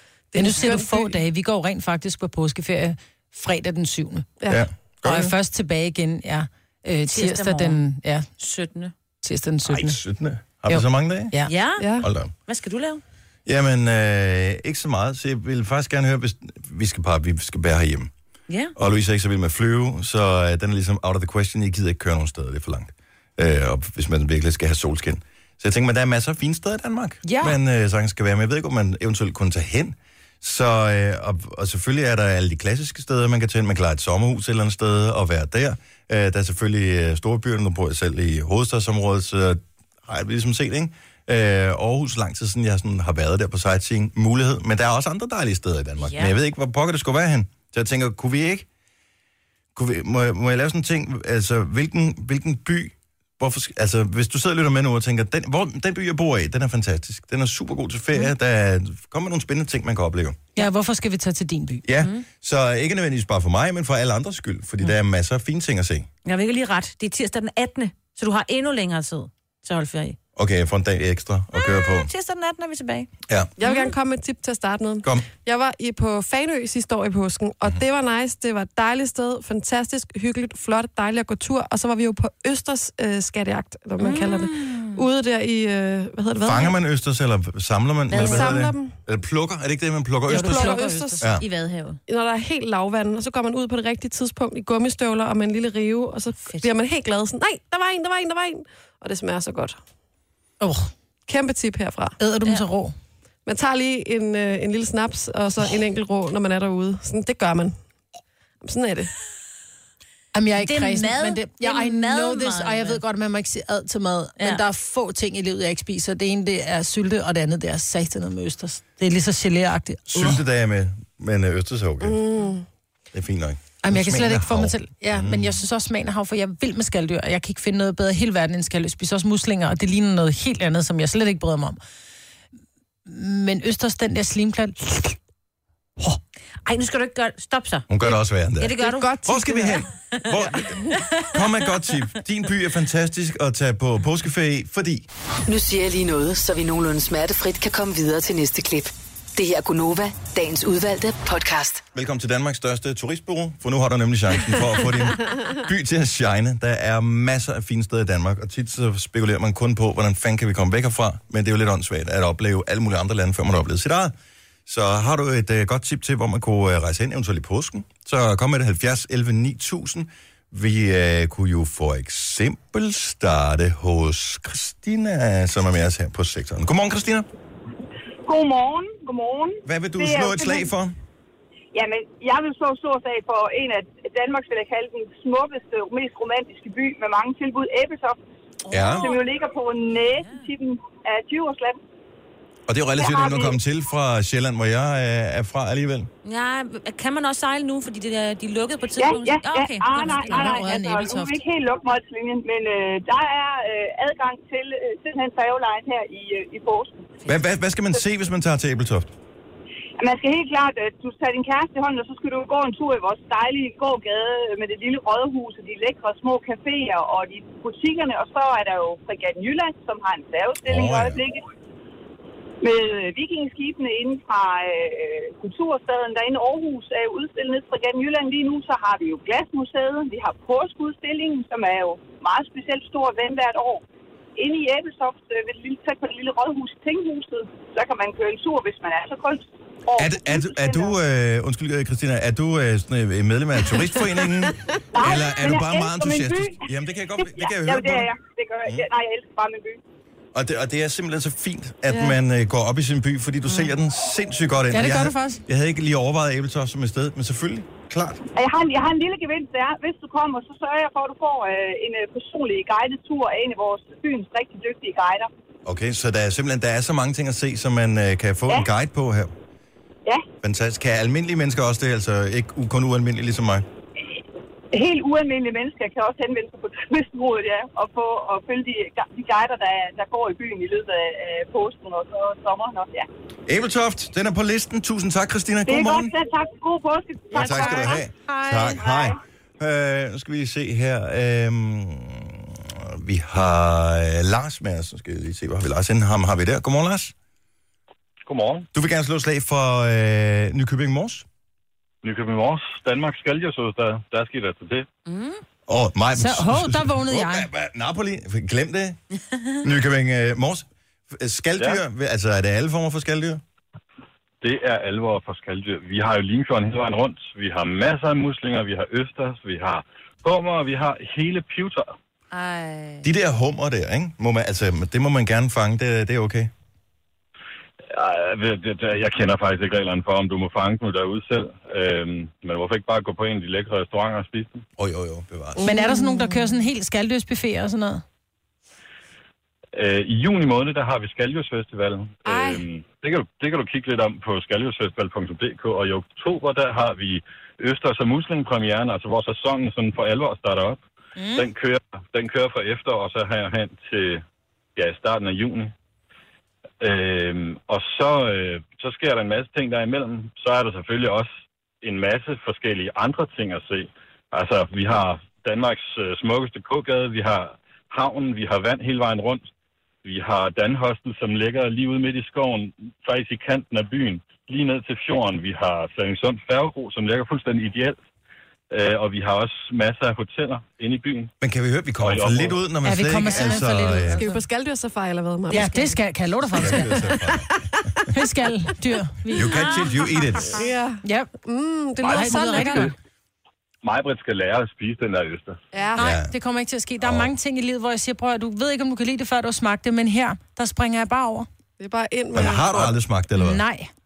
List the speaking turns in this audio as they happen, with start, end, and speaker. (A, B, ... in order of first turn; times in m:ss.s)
0:00.3-0:01.1 A
0:00.4-0:04.4 B
0:04.5-0:05.3 C
0:05.0-0:08.3 B
0:07.1-0:07.8 D
0:08.4-0:08.9 D
0:09.2-0:10.0 B
0:09.7-0:11.3 C
0:10.7-0:11.5 B
0:11.5-0:11.9 D
0:11.8-0:12.1 A
0:12.0-0:12.3 C
0:12.5-0:13.0 D
0:13.5-0:18.1 C
0:18.8-0:48.7 C
0:27.2-0:27.6 B
0:46.0-0:46.3 D
0:49.8-1:00.4 C
1:00.6-1:01.8 B
1:01.8-1:06.1 C
1:06.2-1:10.2 D
1:10.4-1:12.1 C
1:11.5-1:13.1 D
1:13.3-1:13.5 C
1:13.6-1:26.8 A
1:13.6-1:13.9 D
1:24.0-1:25.0 D
1:26.4-1:31.4 C
1:28.1-1:28.6 D
1:28.1-1:29.0 A
1:30.3-1:31.5 B
1:30.3-1:31.3 A
1:31.4-1:32.0 D
1:32.1-1:39.8 A
1:40.6-1:40.9 B
1:41.3-1:42.2 A
1:42.2-1:43.0 B
1:43.5-1:47.8 A
1:48.6-1:49.1 A
1:50.3-2:00.4 B
1:50.6-1:53.0 D
2:00.1-2:02.2 C
2:02.0-2:02.6 A
2:03.1-2:05.6 C
2:03.8-2:11.8 B
2:13.1-2:15.2 B
2:16.7-2:19.2 D
2:17.9-2:25.1 C
2:19.0-2:19.4 B
2:20.1-2:21.2 D
2:25.5-2:31.8 E
2:31.9-2:44.1 C
2:44.7-2:57.3 C
2:58.3-3:00.7 F
2:59.6-3:01.0 C
3:01.7-3:08.2 F
3:08.7-3:09.2 D
3:08.7-3:09.1 C
3:08.9-3:11.8 F
3:12.7-3:16.1 C
3:13.0-3:13.6 F
3:16.2-3:20.6 D
3:19.0-3:27.1 F
3:20.2-3:21.4 B
3:27.3-3:29.1 C
3:30.0-3:41.4 F
3:40.6-3:41.2 C
3:42.6-3:53.8 F
3:54.4-4:01.0 F
4:00.0-4:08.1 C
4:04.9-4:06.6 F
4:07.2-4:09.8 F
4:10.3-4:18.2 C
4:11.9-4:12.2 A
4:14.7-4:15.4 B
4:18.4-4:25.3 F
4:25.6-4:29.3 C
4:30.4-4:33.6 C
4:34.7-4:43.1 F
4:43.5-4:46.1 C
4:45.7-4:48.0 F
4:47.3-4:57.1 C
4:47.4-4:48.8 B
4:48.8-4:49.1 F
4:58.2-4:58.7 G
4:58.7-5:01.3 C
5:02.0-5:04.9 G
5:05.1-5:05.4 D
5:05.7-5:09.0 C
5:06.2-5:07.5 B
5:09.6-5:13.4 C
5:11.6-5:11.8 G
5:14.4-5:22.0 G
5:22.3-5:23.1 D
5:23.0-5:26.5 C
5:27.9-5:34.6 G
5:34.8-5:35.7 C
5:35.6-5:36.4 A
5:35.6-5:38.0 B
5:39.7-5:50.8 G
5:42.2-5:42.6 A
5:51.4-5:54.2 G
5:54.8-5:55.7 G
5:56.8-6:09.5 G
6:10.0-6:18.0 G
6:18.7-6:21.3 G
6:21.4-6:24.2 C
6:22.0-6:22.6 G
6:22.8-6:24.4 B
6:24.1-6:26.0 A
6:25.5-6:27.1 B
6:26.6-6:27.5 C
6:26.6-6:28.1 A
6:28.1-6:29.5 B
6:29.3-6:30.6 C
6:29.4-6:30.6 D
6:30.5-6:32.9 A
6:31.0-6:31.3 B
6:32.0-6:33.0 B
6:32.0-6:32.9 G
6:33.8-6:35.6 G
6:35.7-6:36.0 A
6:36.0-6:36.3 C
6:36.0-6:41.5 B
6:37.0-6:37.3 C
6:41.8-6:43.0 A
6:42.3-6:43.6 C
6:43.4-6:43.9 B